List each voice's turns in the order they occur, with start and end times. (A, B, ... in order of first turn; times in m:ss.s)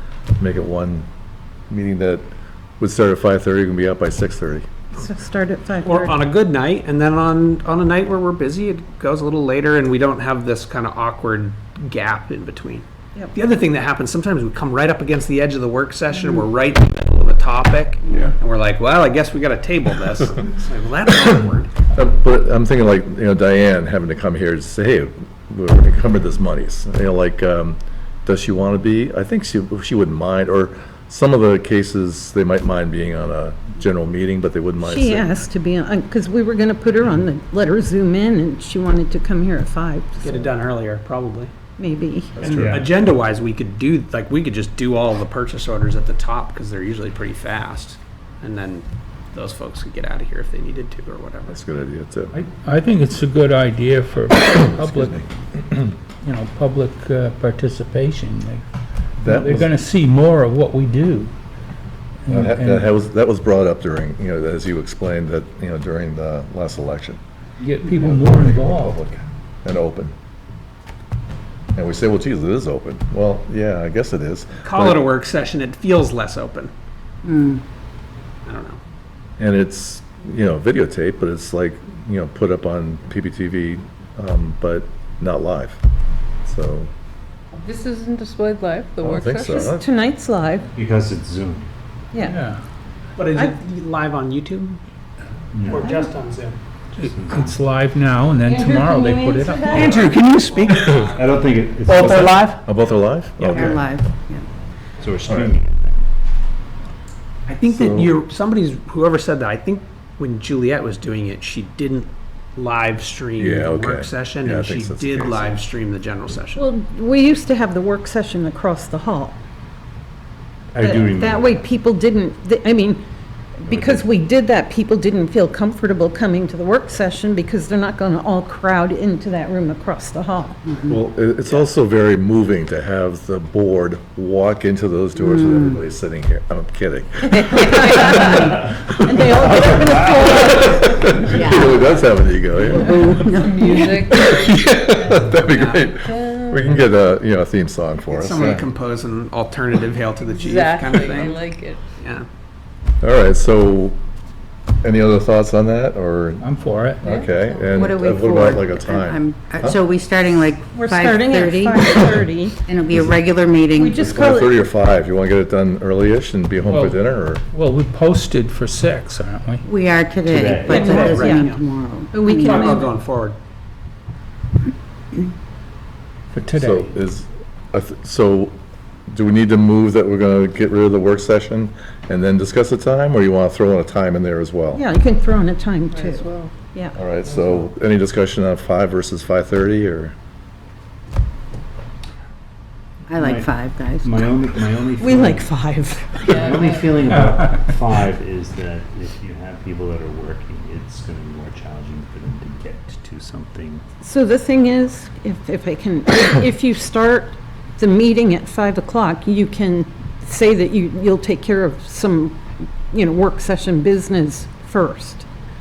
0:00.4-0:01.1 A
0:01.7-0:04.7 A
0:04.9-0:06.2 B
0:05.8-0:21.7 C
0:21.9-0:35.3 A
0:34.8-0:40.4 B
0:40.2-0:41.5 C
0:41.8-0:42.5 B
0:42.4-0:51.6 C
0:42.4-0:42.7 A
0:42.5-0:42.9 D
0:51.5-0:52.4 A
0:52.3-0:55.3 E
0:54.7-0:55.2 A
0:56.2-0:58.6 E
0:59.2-0:59.7 A
0:59.2-1:01.3 E
1:02.2-1:02.9 E
1:02.3-1:07.2 A
1:07.6-1:09.0 E
1:07.9-1:10.1 A
1:11.8-1:15.0 A
1:14.6-1:16.7 C
1:17.2-1:17.6 F
1:18.4-1:18.8 C
1:19.4-1:25.8 A
1:26.4-1:26.9 A
1:27.6-1:29.7 G
1:29.0-1:29.8 A
1:29.5-1:30.7 B
1:30.8-1:31.7 D
1:32.2-1:32.6 E
1:33.2-1:34.8 C
1:35.5-1:36.0 D
1:35.7-1:36.6 C
1:36.9-1:37.6 D
1:37.0-1:39.9 E
1:38.4-1:40.1 B
1:39.7-1:41.2 C
1:41.1-1:42.5 D
1:41.9-1:42.6 C
1:41.9-1:43.8 A
1:43.4-1:44.4 F
1:45.0-1:46.0 D
1:45.2-1:45.5 A
1:47.5-1:56.6 C
1:47.7-1:48.1 A
1:53.4-1:55.6 A
1:56.6-1:59.4 B
2:00.7-2:01.6 D
2:00.8-2:03.0 B
2:03.6-2:10.7 B
2:10.9-2:28.7 A
2:15.2-2:15.8 F
2:17.3-2:20.8 B
2:18.0-2:18.6 F
2:19.9-2:20.2 D
2:21.2-2:23.9 F
2:23.3-2:26.7 G
2:25.5-2:25.8 C
2:28.1-2:32.2 C
2:30.3-2:31.8 G
2:33.0-2:34.0 A
2:34.8-2:36.5 A
2:36.4-2:37.1 E
2:37.0-2:39.8 A
2:37.1-2:37.7 G
2:37.7-2:44.0 F
2:40.7-2:42.6 B
2:43.8-2:44.5 B
2:44.0-2:47.4 A
2:46.7-2:47.0 E
2:47.5-2:49.6 E
2:49.6-2:52.8 F
2:50.2-2:50.9 D
2:50.6-2:51.6 C
2:50.7-2:51.5 B
2:52.1-2:52.9 B
2:52.2-2:53.4 C
2:56.3-2:56.9 E
2:56.5-2:58.6 A
2:59.1-3:04.8 A
3:04.7-3:07.0 B
3:05.9-3:06.5 G
3:07.0-3:10.2 A
3:13.1-3:14.3 F
3:13.1-3:15.5 D
3:15.0-3:16.4 B
3:16.2-3:17.0 G
3:16.3-3:23.8 D
3:17.2-3:17.6 E
3:24.0-3:35.2 B